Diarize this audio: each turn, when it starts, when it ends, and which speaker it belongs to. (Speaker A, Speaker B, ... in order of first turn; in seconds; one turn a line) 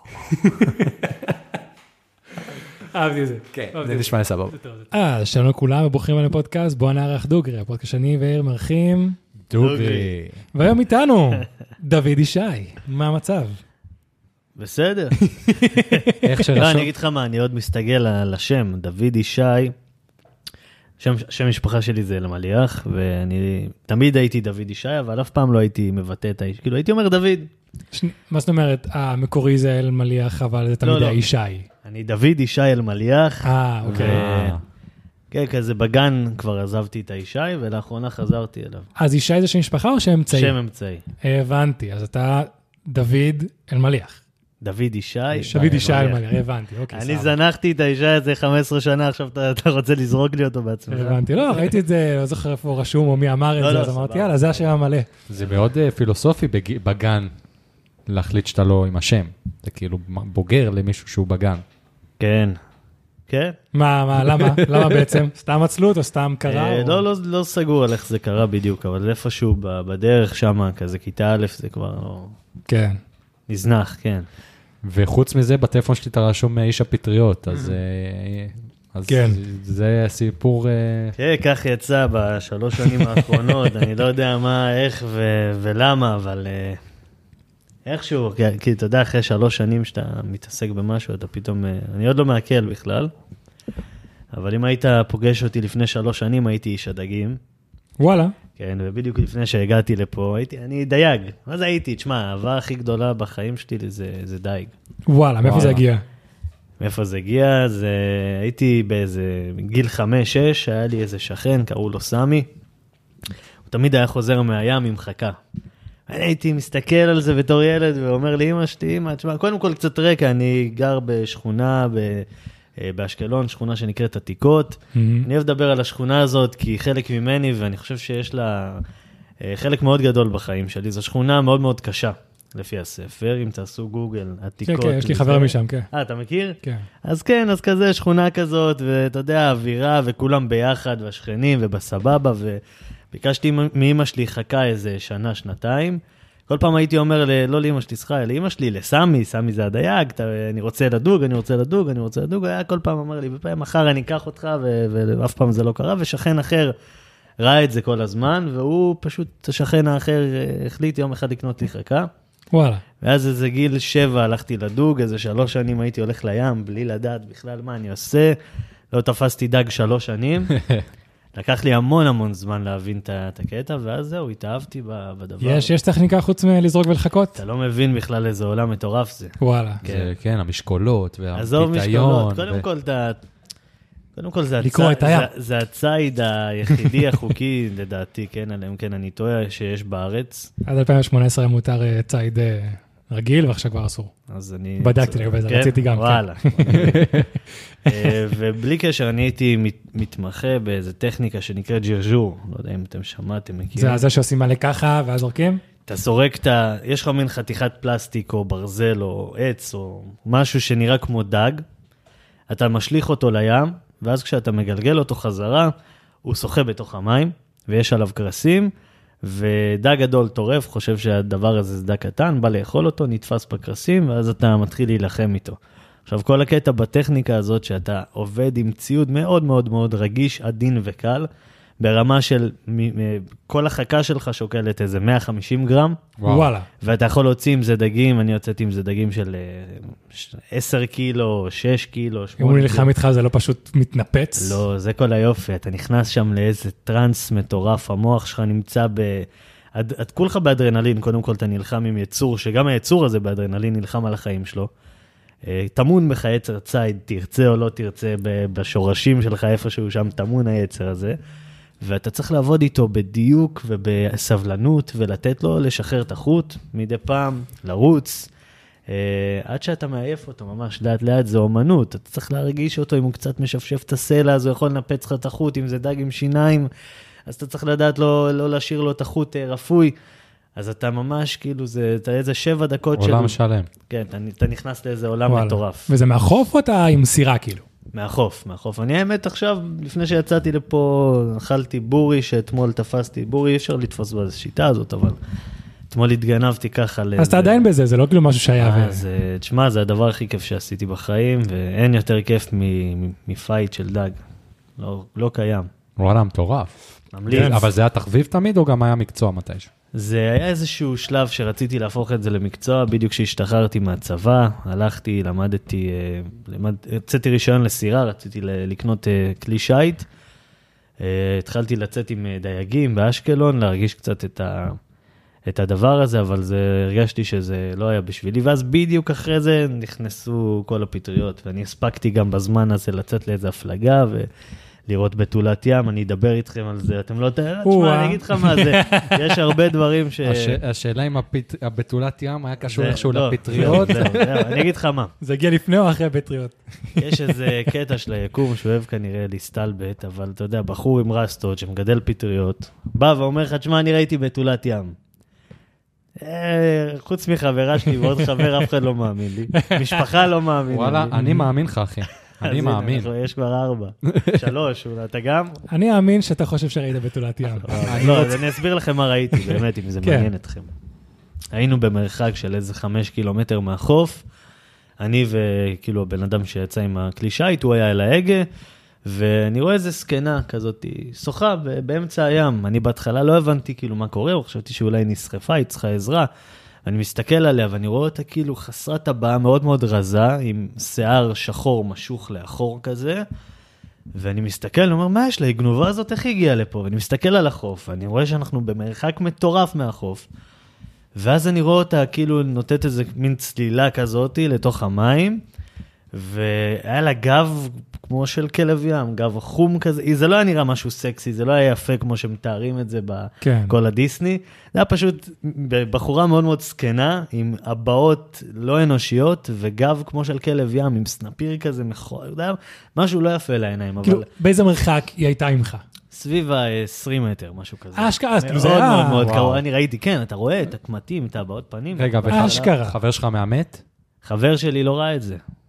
Speaker A: 0.3-1.3
Speaker A: 2.8-4.1
Speaker B: 3.5-4.6
Speaker A: 4.9-9.2
Speaker B: 9.5-10.4
Speaker C: 9.6-10.1
Speaker A: 10.5-13.6
Speaker C: 14.6-19.7
Speaker A: 15.2-16.2
Speaker B: 16.2-16.9
Speaker C: 21.0-27.5
Speaker A: 27.9-31.7
Speaker C: 30.8-31.2
Speaker C: 31.8-34.6
Speaker A: 33.4-34.2
Speaker B: 33.9-34.6
Speaker C: 35.3-38.9
Speaker A: 39.0-40.5
Speaker C: 40.3-41.0
Speaker A: 41.2-44.2
Speaker C: 44.6-46.2
Speaker B: 45.4-45.9
Speaker A: 45.5-47.3
Speaker C: 46.9-51.8
Speaker A: 50.9-55.1
Speaker C: 53.6-54.6
Speaker B: 55.3-57.3
Speaker B: 58.1-61.6
Speaker C: 62.2-62.6
Speaker C: 63.3-63.6
Speaker A: 63.7-67.0
Speaker C: 66.5-72.3
Speaker A: 72.7-73.0
Speaker C: 73.5-74.2
Speaker B: 74.8-81.1
Speaker A: 79.1-79.4
Speaker C: 81.2-86.8
Speaker C: 87.8-93.1
Speaker C: 94.3-97.4
Speaker A: 98.0-98.3
Speaker C: 98.6-104.7
Speaker A: 105.1-106.0
Speaker B: 105.4-105.8
Speaker C: 106.8-112.5
Speaker C: 113.7-115.4
Speaker C: 116.1-128.8
Speaker A: 124.9-125.3
Speaker C: 129.4-142.6
Speaker A: 134.6-135.9
Speaker C: 143.1-156.7
Speaker C: 157.4-162.1
Speaker A: 162.5-162.8
Speaker C: 163.0-168.3
Speaker C: 168.9-170.6
Speaker B: 170.6-170.8
Speaker C: 171.3-175.7
Speaker A: 175.4-177.4
Speaker C: 177.3-180.1
Speaker A: 179.4-179.8
Speaker B: 179.8-182.7
Speaker C: 181.3-183.2
Speaker C: 184.2-190.5
Speaker A: 184.6-185.3
Speaker A: 190.6-194.1
Speaker C: 194.3-197.1
Speaker A: 194.8-197.2
Speaker B: 196.7-197.3
Speaker C: 197.8-204.0
Speaker A: 203.8-205.6
Speaker C: 205.8-211.6
Speaker C: 212.5-215.7
Speaker C: 216.2-218.7
Speaker C: 219.2-231.3
Speaker C: 231.8-236.1
Speaker B: 236.2-236.5
Speaker A: 236.2-236.7
Speaker C: 236.8-242.9
Speaker A: 242.4-244.6
Speaker C: 244.4-254.7
Speaker C: 255.4-261.2
Speaker C: 261.8-268.3
Speaker C: 268.9-276.7
Speaker C: 277.3-279.9
Speaker C: 280.6-285.9
Speaker B: 282.9-283.7
Speaker A: 285.3-287.6
Speaker C: 287.9-295.2
Speaker C: 295.9-297.6
Speaker A: 297.2-299.0
Speaker C: 298.6-304.1
Speaker C: 304.8-305.7
Speaker B: 306.0-309.7
Speaker C: 307.1-307.6
Speaker A: 307.3-307.7
Speaker C: 309.9-320.1
Speaker C: 321.0-324.8
Speaker C: 325.5-334.3
Speaker C: 334.9-340.6
Speaker A: 337.6-339.4
Speaker B: 340.2-344.5
Speaker C: 342.7-345.1
Speaker A: 345.2-347.3
Speaker C: 347.0-354.9
Speaker C: 356.2-361.1
Speaker A: 359.6-360.0
Speaker B: 360.7-363.1
Speaker A: 361.1-361.5
Speaker C: 362.4-365.6
Speaker B: 364.1-364.4
Speaker A: 365.7-367.8
Speaker C: 367.6-370.7
Speaker B: 367.7-368.6
Speaker A: 370.0-370.3
Speaker C: 371.5-374.2
Speaker C: 375.0-378.5
Speaker C: 379.1-386.3
Speaker C: 386.8-393.2
Speaker C: 394.1-400.2
Speaker C: 401.1-405.4
Speaker C: 406.1-424.3
Speaker A: 413.4-413.7
Speaker A: 424.0-425.8
Speaker C: 426.1-432.7
Speaker A: 427.9-429.3
Speaker B: 429.2-429.6
Speaker B: 431.9-433.8
Speaker A: 432.3-432.9
Speaker C: 434.2-435.4